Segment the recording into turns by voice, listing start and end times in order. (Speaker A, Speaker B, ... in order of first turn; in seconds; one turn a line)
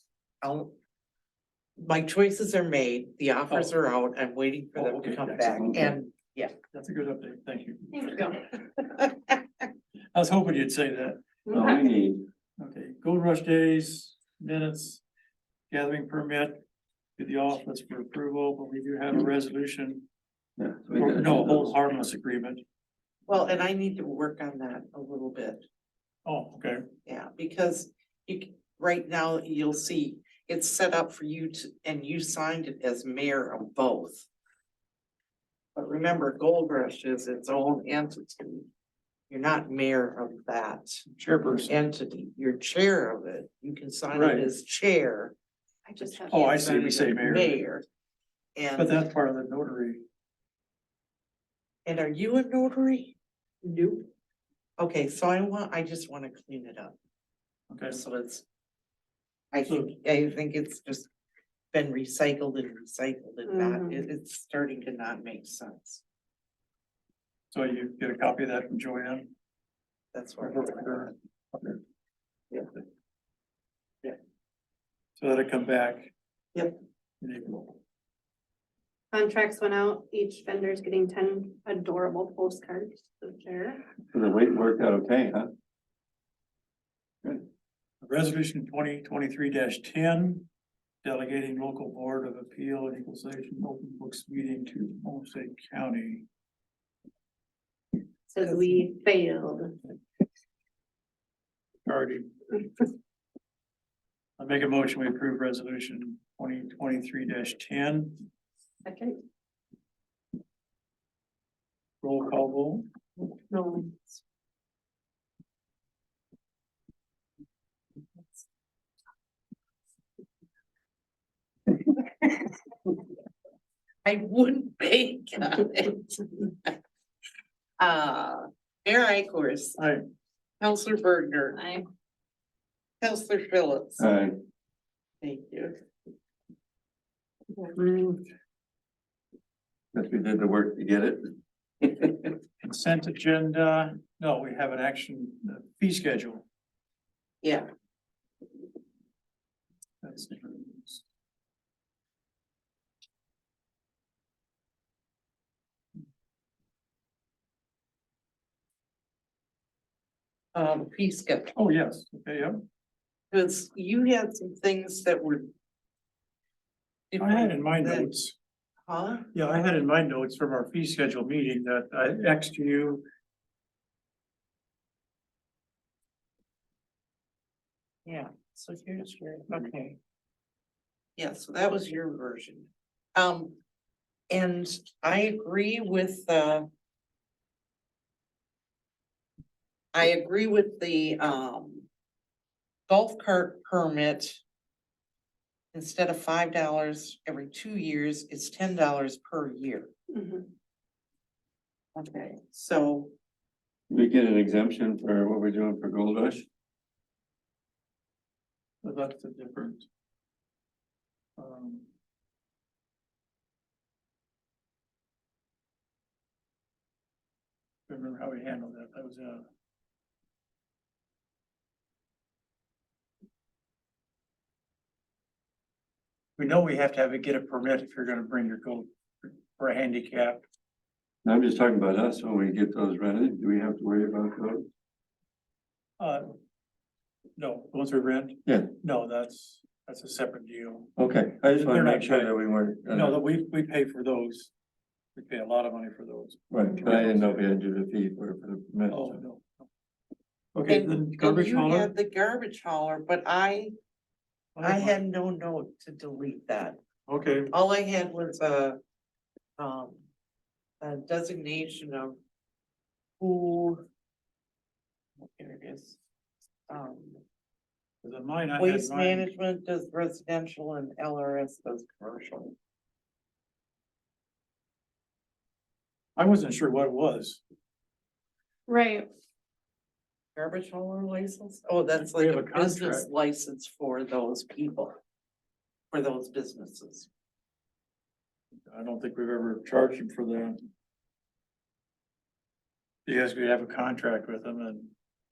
Speaker A: 0.4-0.7
Speaker A: 1.8-6.5
Speaker B: 3.5-3.7
Speaker B: 4.7-5.5
Speaker C: 5.5-5.9
Speaker B: 6.7-7.8
Speaker D: 7.9-8.4
Speaker A: 8.8-9.2
Speaker B: 10.1-11.2
Speaker D: 11.5-11.8
Speaker C: 11.5-12.3
Speaker B: 12.6-15.0
Speaker B: 15.7-16.6
Speaker B: 17.2-20.1
Speaker C: 20.6-21.7
Speaker B: 21.0-22.6
Speaker A: 23.3-25.6
Speaker B: 26.2-26.8
Speaker A: 27.1-34.3
Speaker A: 35.7-38.7
Speaker A: 39.3-41.0
Speaker B: 41.1-41.7
Speaker A: 41.6-45.3
Speaker B: 44.1-44.5
Speaker D: 45.9-46.4
Speaker A: 46.0-47.8
Speaker B: 46.3-47.6
Speaker A: 48.5-49.0
Speaker B: 48.8-50.0
Speaker A: 51.9-53.1
Speaker D: 53.6-54.1
Speaker A: 54.8-57.0
Speaker B: 57.7-58.0
Speaker A: 57.9-58.4
Speaker A: 59.5-61.1
Speaker B: 59.7-59.9
Speaker A: 61.7-66.0
Speaker D: 63.5-64.0
Speaker B: 67.5-69.3
Speaker A: 70.1-71.1
Speaker B: 70.4-71.8
Speaker B: 75.2-76.1
Speaker B: 77.2-77.8
Speaker D: 79.1-83.8
Speaker C: 84.1-85.5
Speaker B: 88.0-90.5
Speaker B: 91.0-96.2
Speaker D: 98.3-99.8
Speaker B: 101.8-102.3
Speaker B: 104.4-108.2
Speaker D: 108.8-109.2
Speaker B: 112.0-112.8
Speaker D: 113.5-114.0
Speaker A: 124.0-126.7
Speaker A: 127.8-129.8
Speaker B: 129.8-130.0
Speaker A: 130.6-131.6
Speaker D: 131.6-131.8
Speaker A: 133.0-134.0
Speaker C: 134.0-134.3
Speaker A: 135.2-135.8
Speaker D: 137.6-138.2
Speaker C: 139.9-141.2
Speaker C: 141.8-142.1
Speaker B: 142.6-146.4
Speaker A: 147.4-147.7
Speaker B: 150.0-151.0
Speaker A: 160.5-161.5
Speaker B: 161.5-162.6
Speaker A: 163.3-165.5
Speaker A: 167.1-168.1
Speaker B: 167.2-168.3
Speaker A: 168.9-169.3
Speaker B: 169.3-173.0
Speaker A: 178.1-180.0
Speaker A: 181.2-183.6
Speaker A: 184.3-186.7
Speaker A: 189.9-191.9
Speaker A: 192.9-194.4
Speaker A: 195.7-199.9
Speaker D: 200.1-200.4
Speaker A: 201.9-203.1
Speaker C: 203.9-206.4
Speaker B: 208.8-209.8
Speaker B: 211.4-211.8
Speaker B: 217.9-219.4
Speaker B: 226.4-230.4
Speaker C: 231.2-234.7
Speaker B: 236.0-236.3
Speaker B: 237.4-240.9
Speaker C: 238.4-238.7
Speaker C: 241.0-243.2
Speaker B: 241.5-242.3
Speaker B: 242.9-244.5
Speaker B: 245.2-247.4
Speaker C: 246.5-249.2
Speaker B: 248.9-249.7
Speaker B: 250.5-251.9
Speaker A: 250.7-253.7
Speaker B: 254.6-255.0
Speaker A: 254.6-256.8
Speaker B: 257.1-257.5
Speaker A: 257.5-258.8
Speaker A: 259.6-260.0
Speaker A: 260.8-262.2
Speaker A: 263.2-263.8
Speaker A: 265.2-266.0
Speaker A: 266.7-267.2
Speaker B: 268.0-269.3
Speaker A: 268.6-272.5
Speaker B: 276.2-277.4
Speaker D: 278.7-279.1
Speaker A: 280.4-284.9
Speaker B: 281.9-283.1
Speaker A: 285.9-287.1
Speaker B: 288.6-290.6
Speaker B: 293.1-294.9